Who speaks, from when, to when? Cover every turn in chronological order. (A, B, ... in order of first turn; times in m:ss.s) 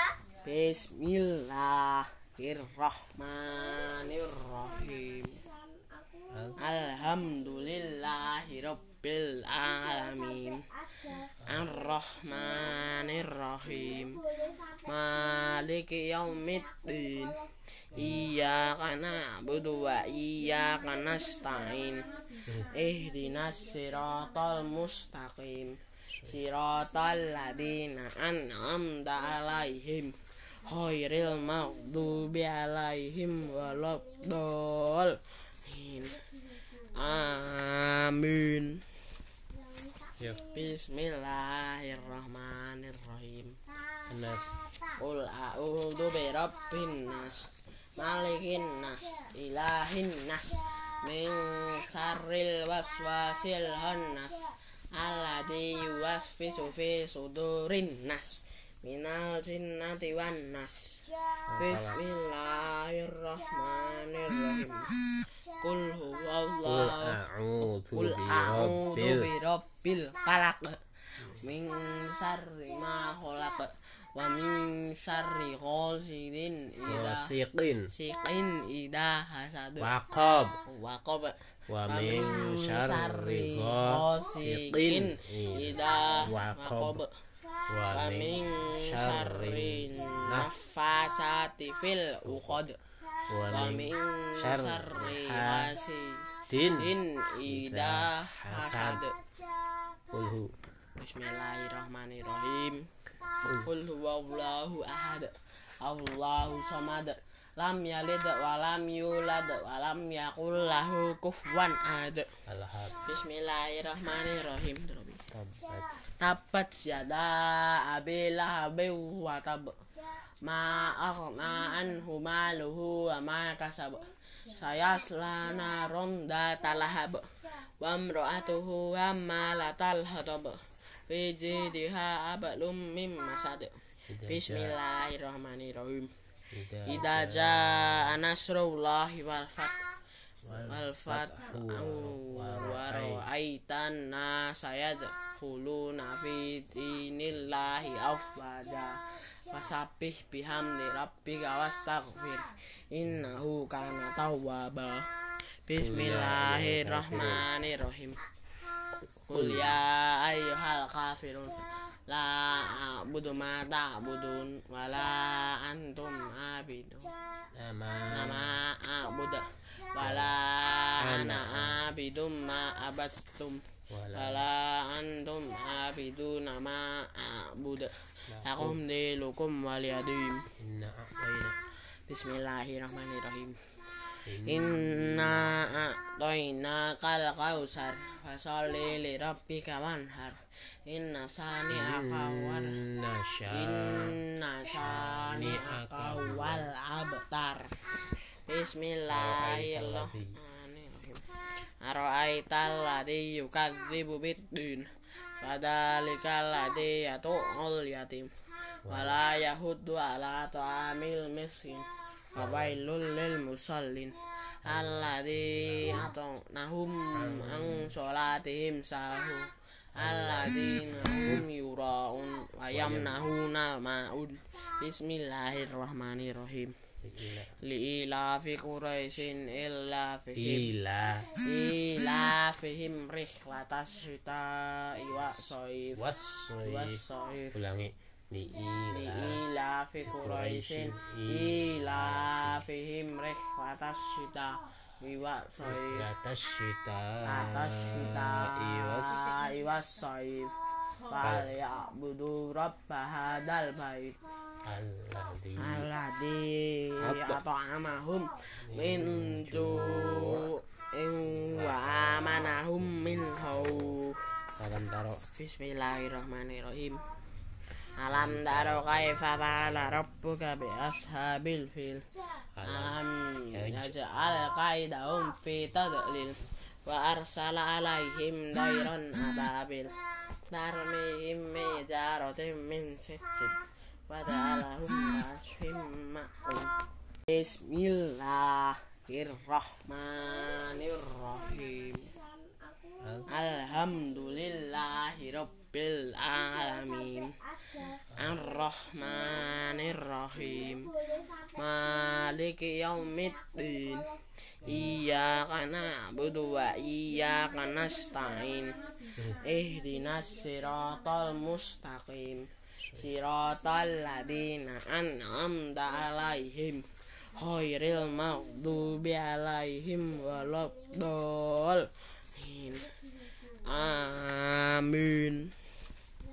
0:00.3-0:05.5 A
0:06.3-0:06.6 B
0:06.6-0:38.9 A
0:11.4-0:11.7 B
0:17.9-0:18.3 B
0:40.2-0:40.5 B
0:40.5-0:43.6 A
0:44.0-0:44.6 B
0:44.9-1:05.0 A
1:01.5-1:02.0 B
1:05.5-1:07.2 A
1:06.6-1:09.3 B
1:07.9-1:17.3 A
1:16.9-1:17.9 B
1:17.9-1:19.9 A
1:19.8-1:20.6 B
1:20.6-1:27.2 A
1:21.7-1:27.0 B
1:27.7-1:30.5 B
1:27.9-1:32.8 A
1:32.2-1:32.6 B
1:33.3-1:35.7 B
1:33.5-1:39.2 A
1:36.5-1:36.9 B
1:37.4-1:39.0 B
1:40.1-1:40.5 B
1:41.0-1:42.9 A
1:43.6-1:52.4 A
1:52.4-1:53.0 B
1:52.9-1:55.3 A
1:55.3-1:56.0 B
1:56.0-1:59.9 A
2:00.4-2:16.2 A
2:14.1-2:14.8 B
2:16.5-2:18.1 B
2:16.8-2:19.9 A
2:20.4-2:23.2 B
2:20.5-2:38.2 A
2:35.8-2:37.5 B
2:39.0-2:39.7 B
2:39.3-2:47.2 A
2:47.5-2:48.5 B
2:48.1-3:00.5 A
2:50.0-2:50.3 B
2:51.0-2:51.8 B
2:53.9-2:54.4 B
2:58.3-2:58.8 B
3:00.6-3:01.6 B
3:02.1-3:03.7 A
3:04.2-3:05.5 B
3:04.4-3:12.8 A
3:11.7-3:14.2 B
3:13.5-3:21.3 A
3:14.7-3:16.7 B
3:19.1-3:20.4 B
3:21.8-3:46.8 A
3:28.8-3:29.2 B
3:32.4-3:32.8 B
3:34.6-3:36.1 B
3:37.1-3:37.9 B
3:40.0-3:41.4 B
3:42.7-3:43.3 B
3:47.0-3:47.5 B
3:47.6-3:50.7 A
3:50.4-3:51.4 B
3:51.4-3:56.0 A
3:55.9-3:57.0 B
3:56.6-3:57.6 A
3:57.5-3:59.4 B
3:58.9-4:06.1 A
4:00.0-4:02.6 B
4:05.6-4:09.3 B
4:07.2-4:14.3 A
4:11.2-4:11.5 B
4:14.6-4:15.9 B
4:15.6-4:24.3 A
4:17.0-4:17.4 B
4:18.6-4:20.5 B
4:21.2-4:24.0 B
4:24.5-4:25.2 B
4:25.3-4:27.0 A
4:27.9-4:32.1 A
4:28.1-4:30.0 B
4:32.6-4:33.9 B
4:32.6-4:52.2 A
4:53.0-4:53.3 B
4:53.2-5:25.6 A
4:58.1-4:58.4 B
5:04.6-5:05.0 B